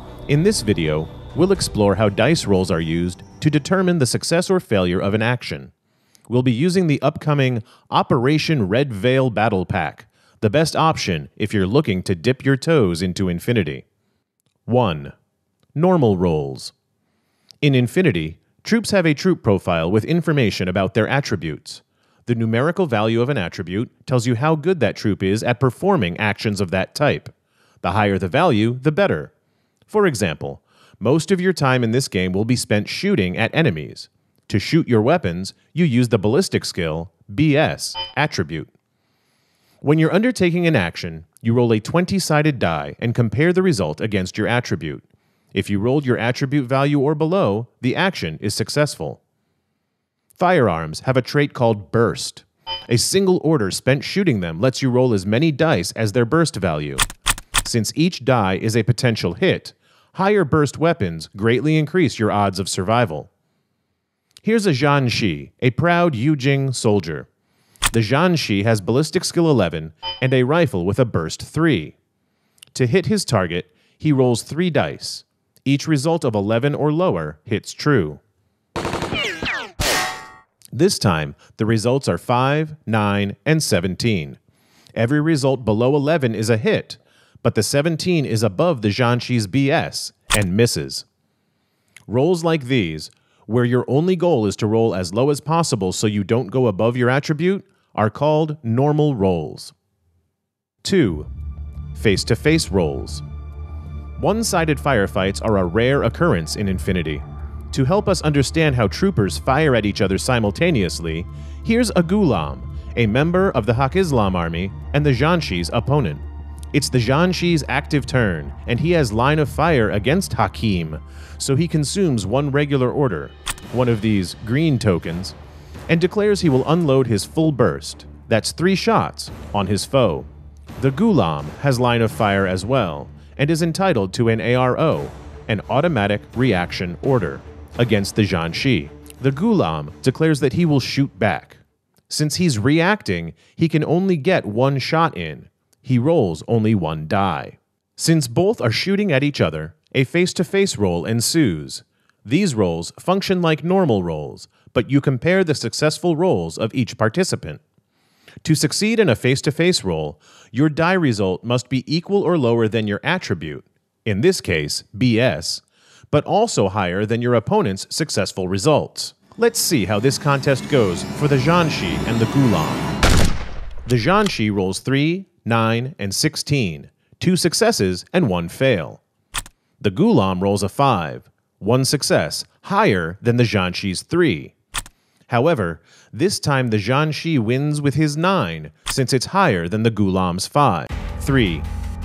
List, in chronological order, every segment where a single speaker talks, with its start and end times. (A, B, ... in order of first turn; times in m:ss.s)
0:00.3-0:05.7 A
0:06.3-0:13.8 A
0:14.7-0:15.1 A
0:15.8-0:16.7 A
0:17.6-0:29.3 A
0:29.9-0:38.7 A
0:39.8-0:49.2 A
0:50.4-0:57.1 A
0:57.6-1:03.3 A
1:04.4-1:07.3 A
1:07.9-1:12.0 A
1:12.7-1:18.2 A
1:20.7-1:24.4 A
1:25.0-1:31.1 A
1:32.1-1:39.7 A
1:40.8-1:41.3 A
1:41.9-1:43.2 A
1:44.2-2:05.4 A
2:05.9-2:37.6 A
2:38.4-2:52.9 A
2:53.9-2:59.0 A
2:59.8-3:04.5 A
3:05.3-3:11.7 A